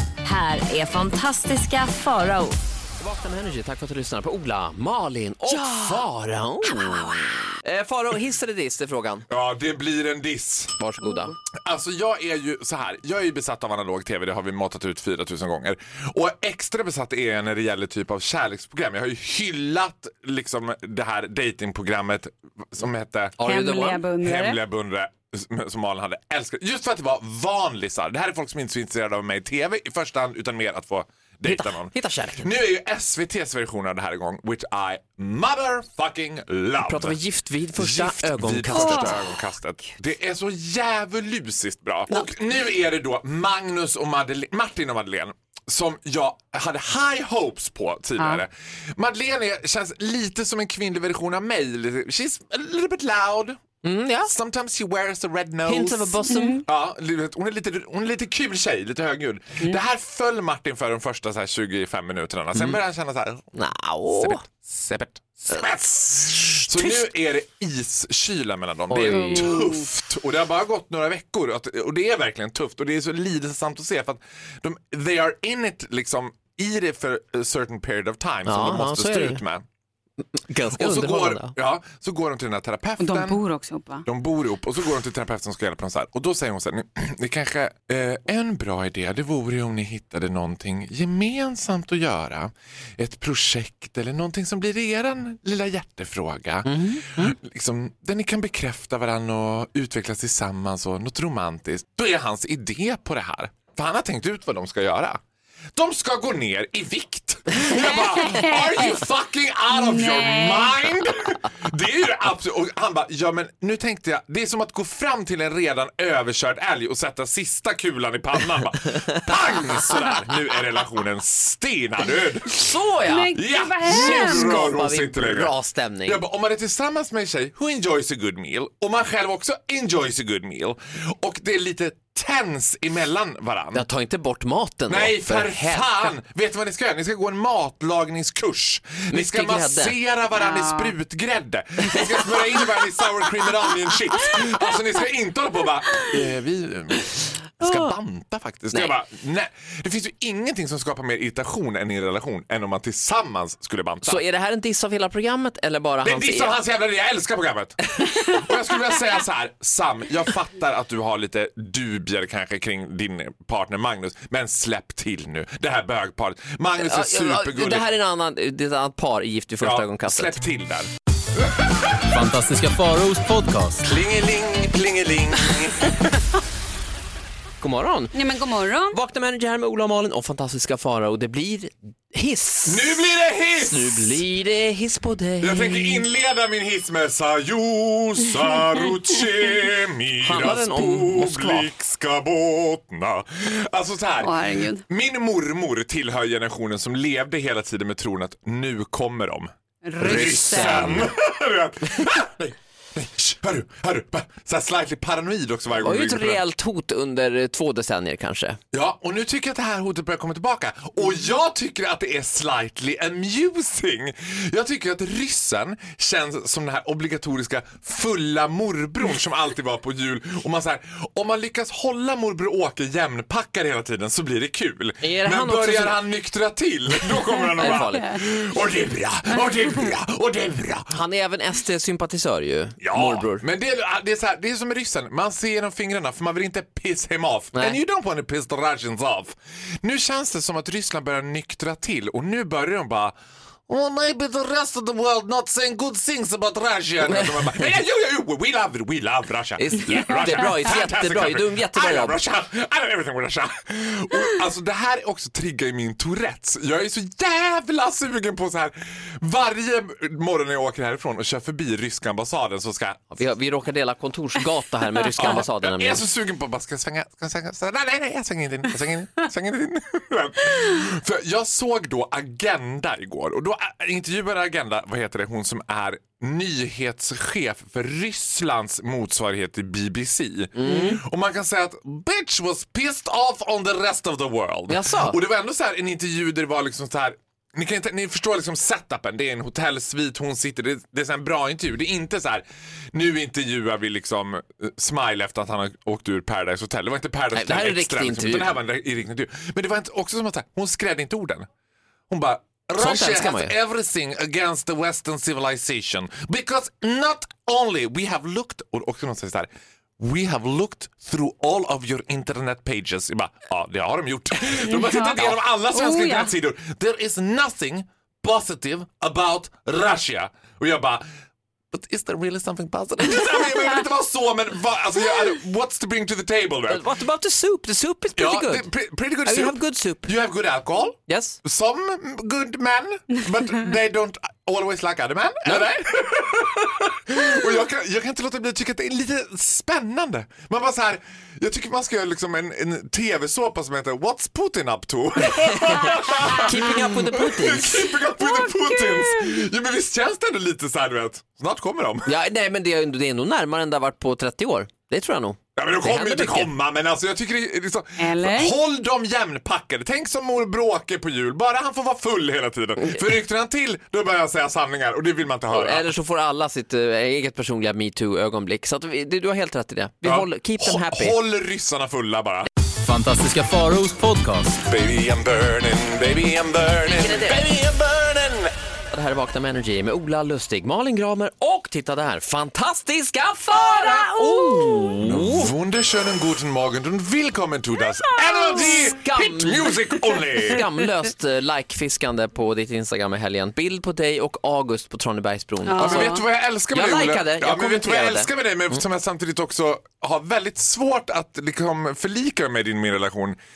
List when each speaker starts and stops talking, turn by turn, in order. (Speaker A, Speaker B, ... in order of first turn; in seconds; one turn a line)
Speaker A: 0.2-2.6
Speaker B: 3.0-9.2
Speaker C: 5.5-6.0
Speaker C: 6.7-7.5
Speaker D: 9.3-10.8
Speaker B: 10.8-11.3
Speaker D: 11.6-23.6
Speaker B: 23.4-24.0
Speaker C: 23.4-24.6
Speaker D: 24.2-37.2
Speaker B: 31.4-32.5
Speaker B: 36.8-39.2
Speaker D: 37.8-53.6
Speaker C: 38.7-39.4
Speaker C: 48.2-48.4
Speaker B: 53.8-54.3
Speaker D: 54.3-63.5
Speaker B: 55.7-56.6
Speaker C: 56.3-56.6
Speaker B: 62.5-62.8
Speaker B: 63.5-64.4
Speaker D: 64.1-79.6
Speaker B: 65.5-67.1
Speaker B: 68.9-69.6
Speaker C: 69.1-69.8
Speaker B: 78.5-79.4
Speaker B: 80.3-81.5
Speaker D: 80.7-83.4
Speaker C: 83.0-84.0
Speaker D: 84.0-105.2
Speaker B: 96.7-97.3
Speaker D: 105.7-122.7
Speaker C: 107.7-109.0
Speaker C: 109.7-110.9
Speaker B: 122.5-126.2
Speaker C: 123.1-124.6
Speaker D: 123.3-125.5
Speaker D: 126.0-133.8
Speaker B: 133.7-136.1
Speaker D: 134.9-154.2
Speaker B: 139.1-139.9
Speaker C: 140.3-140.9
Speaker B: 147.6-147.9
Speaker B: 154.0-156.6
Speaker D: 156.0-167.9
Speaker B: 166.8-170.3
Speaker D: 169.6-170.9
Speaker E: 172.1-173.8
Speaker D: 173.8-176.2
Speaker B: 177.6-178.2
Speaker C: 178.1-179.0
Speaker B: 178.9-183.0
Speaker D: 182.7-184.2
Speaker B: 183.6-186.0
Speaker D: 185.4-206.4
Speaker B: 190.2-191.7
Speaker C: 194.2-194.8
Speaker C: 199.8-201.1
Speaker B: 200.0-201.1
Speaker B: 205.8-208.6
Speaker D: 208.7-231.0
Speaker B: 225.0-226.0
Speaker B: 227.6-228.2
Speaker C: 227.6-227.8
Speaker B: 230.9-233.4
Speaker D: 232.8-243.2
Speaker D: 243.7-263.1
Speaker B: 247.1-247.7
Speaker B: 249.6-252.2
Speaker B: 263.1-266.0
Speaker D: 265.1-301.5
Speaker B: 280.6-281.0
Speaker B: 284.7-285.2
Speaker B: 297.3-298.6
Speaker D: 302.1-321.1
Speaker B: 302.8-303.5
Speaker C: 314.7-316.3
Speaker D: 321.7-326.9
Speaker B: 326.7-328.7
Speaker D: 328.2-352.1
Speaker B: 329.2-330.1
Speaker B: 331.1-331.4
Speaker B: 345.5-347.9
Speaker C: 348.2-349.4
Speaker B: 352.1-356.5
Speaker D: 355.6-365.8
Speaker C: 358.0-358.6
Speaker B: 365.5-371.2
Speaker D: 370.0-372.5
Speaker E: 372.8-374.6
Speaker D: 374.6-378.5
Speaker B: 376.8-377.4
Speaker B: 378.9-385.5
Speaker C: 383.5-384.9
Speaker D: 385.0-390.6
Speaker C: 388.2-388.8
Speaker B: 388.5-389.9
Speaker B: 390.4-398.8
Speaker C: 395.6-396.2
Speaker D: 395.8-403.4